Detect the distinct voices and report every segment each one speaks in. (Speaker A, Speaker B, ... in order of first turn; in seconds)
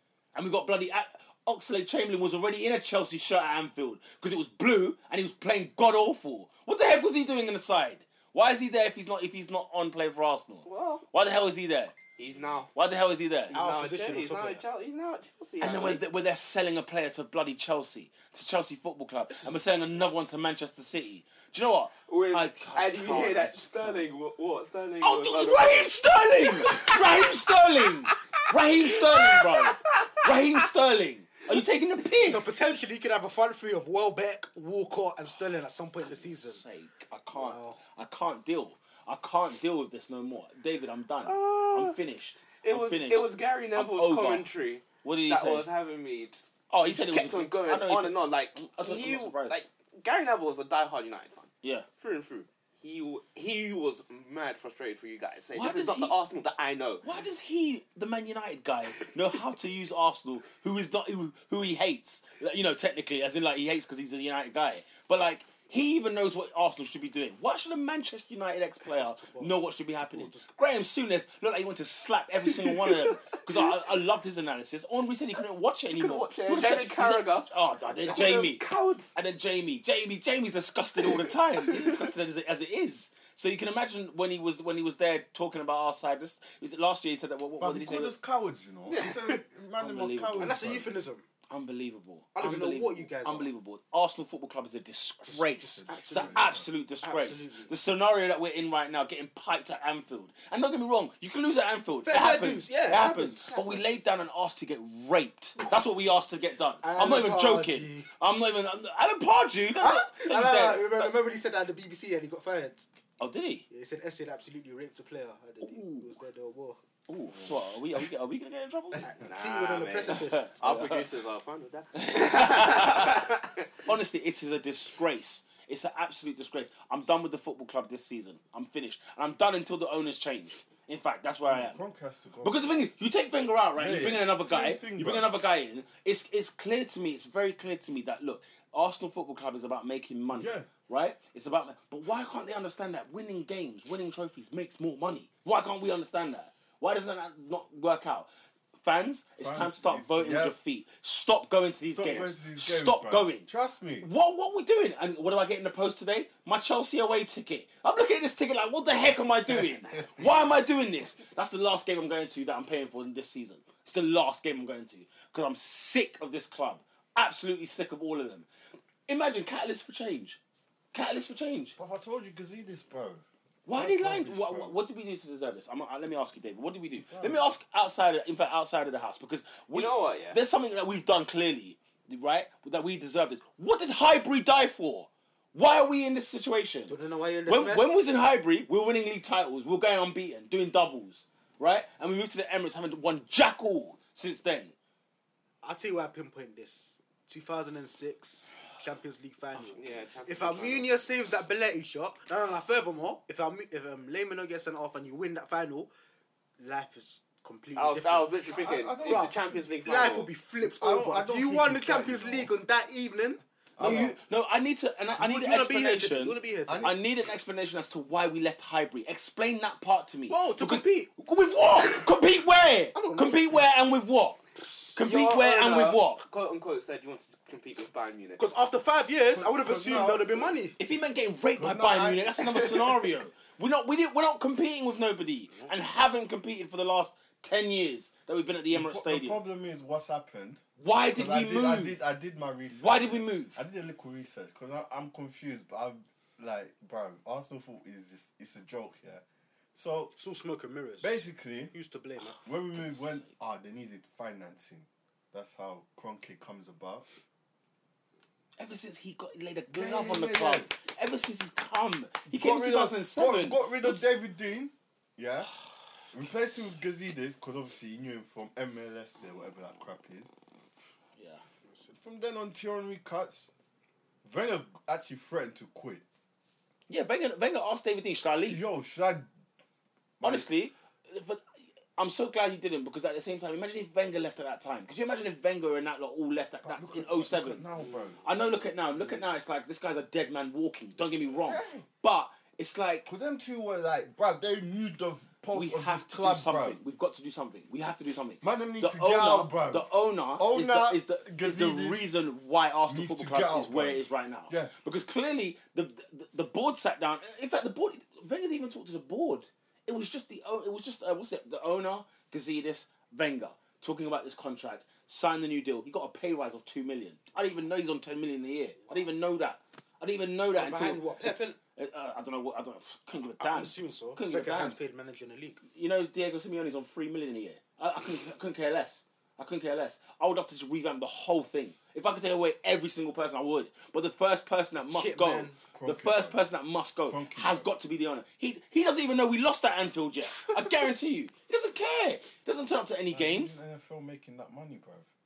Speaker A: 0.3-12.0, 12.7-13.6, 15.6-23.6, 25.0-32.5, 36.0-44.5, 45.0-45.7, 46.7-49.6, 55.5-56.2, 57.0-78.6, 79.2-88.1, 89.8-90.5, 91.5-111.2, 113.2-113.7, 115.6-116.2, 117.1-119.1, 120.1-120.9, 122.0-123.3, 123.8-131.8, 132.4-148.3, 148.8-153.5, 154.0-168.5, 169.1-170.4, 170.9-171.8, 173.7-194.7, 213.8-224.4, 224.9-226.2, 230.8-239.4, 240.8-242.0, 242.7-243.6, 252.7-253.3, 258.6-264.0, 271.2-271.4, 276.9-278.6, 280.2-281.4, 282.0-287.7, 288.2-293.1, 295.5-324.8, 325.7-343.6
Speaker B: 10.7-11.1, 12.2-12.7, 13.5-16.0, 22.1-27.4, 28.9-30.3, 41.2-42.0, 42.6-57.1, 72.7-73.7, 76.0-77.5, 78.0-79.1, 81.0-82.0, 88.9-89.4, 119.2-123.7, 179.7-180.4, 199.6-200.9, 207.8-210.3, 225.0-228.5, 232.7-233.0
Speaker C: 12.3-12.7, 87.6-90.9, 95.7-96.7, 131.5-132.7, 133.8-135.4, 140.3-140.7, 149.4-150.5, 151.8-154.1, 171.8-174.8, 177.1-177.4, 208.5-209.7, 210.6-212.5, 213.8-214.2, 216.6-217.0, 229.3-230.6, 231.6-232.4, 238.7-240.6, 241.1-249.2, 249.8-250.1, 251.0-251.7, 252.4-257.1, 259.7-260.7, 262.3-265.5, 266.1-270.3, 271.9-273.5, 274.2-276.0, 278.5-279.3, 280.2-280.5, 286.6-288.4, 288.9-289.2, 291.4-291.9, 293.1-296.8, 298.4-302.1, 302.9-304.7, 335.7-336.4, 337.1-337.7, 343.1-345.1
Speaker D: 13.5-14.6, 32.2-36.6, 37.3-37.8, 68.8-70.5, 90.4-91.2, 92.3-93.5, 95.2-97.7, 102.0-103.8, 106.8-108.1, 109.8-112.9, 113.7-116.8, 119.0-120.9, 186.9-188.2, 195.6-205.9, 206.6-208.4, 209.0-214.1, 215.1-217.0, 220.3-221.1, 222.9-223.6, 228.4-230.8, 250.2-252.4, 320.5-321.6, 323.4-325.6, 334.9-335.6